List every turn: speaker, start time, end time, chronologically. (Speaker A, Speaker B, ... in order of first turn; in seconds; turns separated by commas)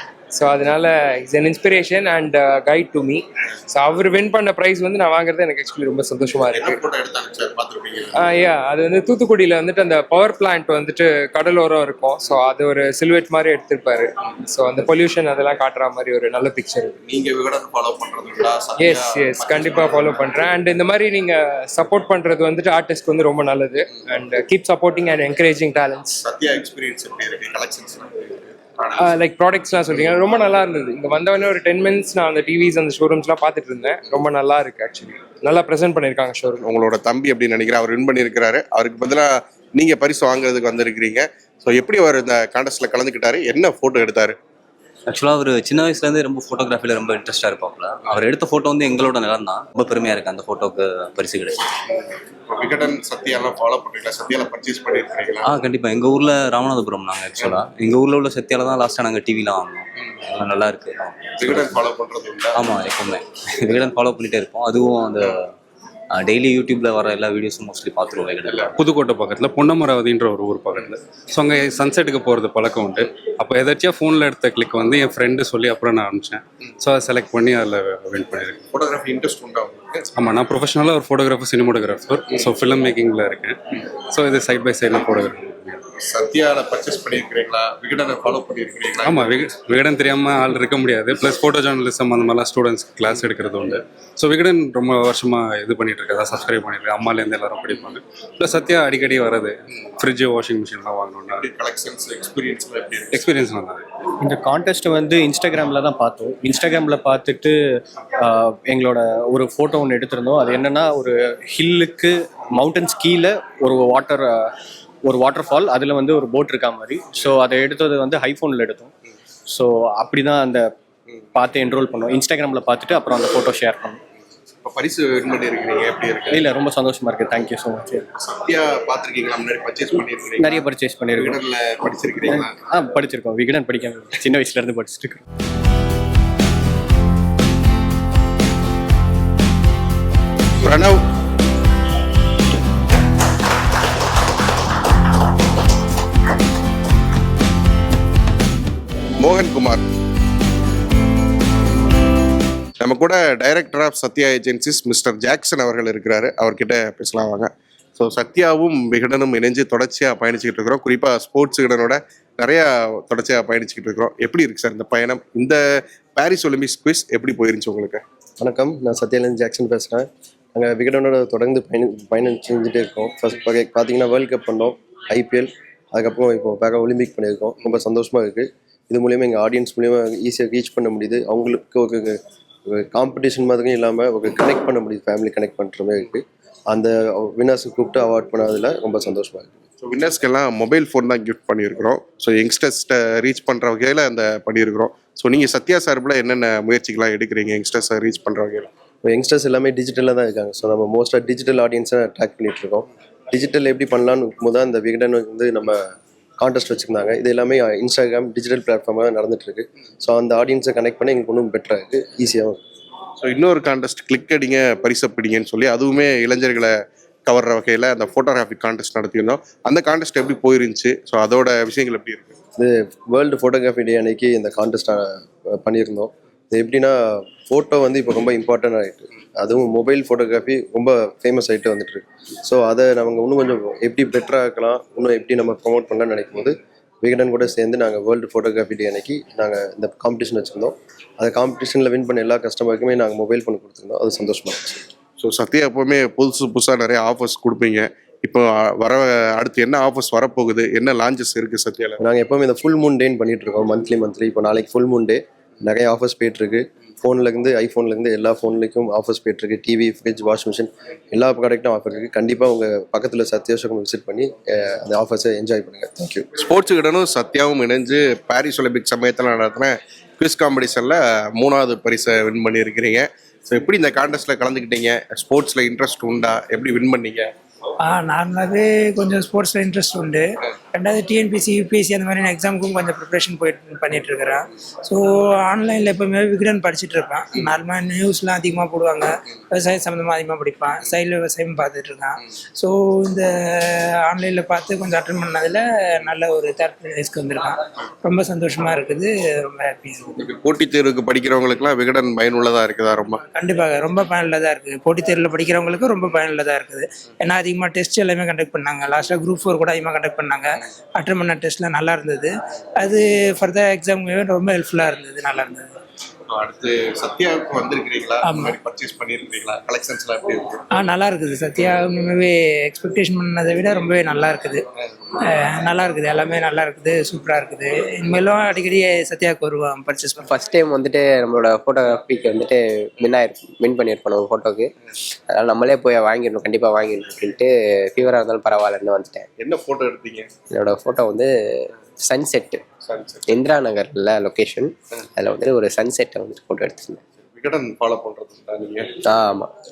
Speaker A: 0.3-6.8, Speaker B: 6.5-8.2, Speaker A: 8.2-16.9, Speaker B: 17.0-20.2, Speaker A: 18.8-26.2, Speaker B: 26.2-29.1, Speaker A: 29.0-36.6, Speaker B: 29.9-30.2, Speaker B: 36.6-44.4, Speaker C: 45.1-51.7, Speaker B: 52.5-55.6, Speaker C: 55.4-61.8, Speaker B: 57.4-57.6, Speaker B: 61.4-62.7, Speaker C: 62.5-65.5, Speaker C: 66.1-68.7, Speaker B: 68.5-68.7, Speaker D: 68.8-78.6, Speaker B: 78.7-80.0, Speaker D: 80.2-85.8, Speaker B: 86.0-89.2, Speaker D: 89.0-101.5, Speaker B: 101.3-103.2, Speaker D: 103.1-103.8, Speaker E: 104.2-107.6, Speaker E: 108.2-118.9, Speaker E: 119.5-120.7, Speaker E: 121.3-124.0, Speaker B: 124.6-126.5, Speaker E: 126.3-128.1, Speaker B: 128.2-132.5, Speaker E: 130.4-131.4, Speaker E: 132.3-135.2, Speaker B: 140.6-141.0, Speaker B: 149.2-149.8, Speaker B: 152.8-165.6, Speaker B: 166.2-168.0, Speaker F: 168.4-189.6, Speaker B: 189.8-198.7, Speaker F: 199.0-212.6, Speaker B: 213.2-216.8, Speaker B: 217.3-222.3, Speaker F: 222.6-244.8, Speaker B: 245.2-252.0, Speaker F: 252.0-266.2, Speaker B: 266.3-277.3, Speaker G: 277.9-300.2, Speaker B: 300.2-303.2, Speaker G: 303.3-315.8, Speaker B: 316.3-320.6, Speaker G: 318.2-318.6, Speaker G: 320.7-324.6, Speaker G: 325.2-330.2, Speaker H: 330.2-339.3, Speaker B: 339.4-340.3, Speaker H: 340.5-342.6, Speaker B: 342.9-343.3, Speaker H: 343.3-347.0, Speaker B: 347.2-349.0, Speaker H: 349.0-349.5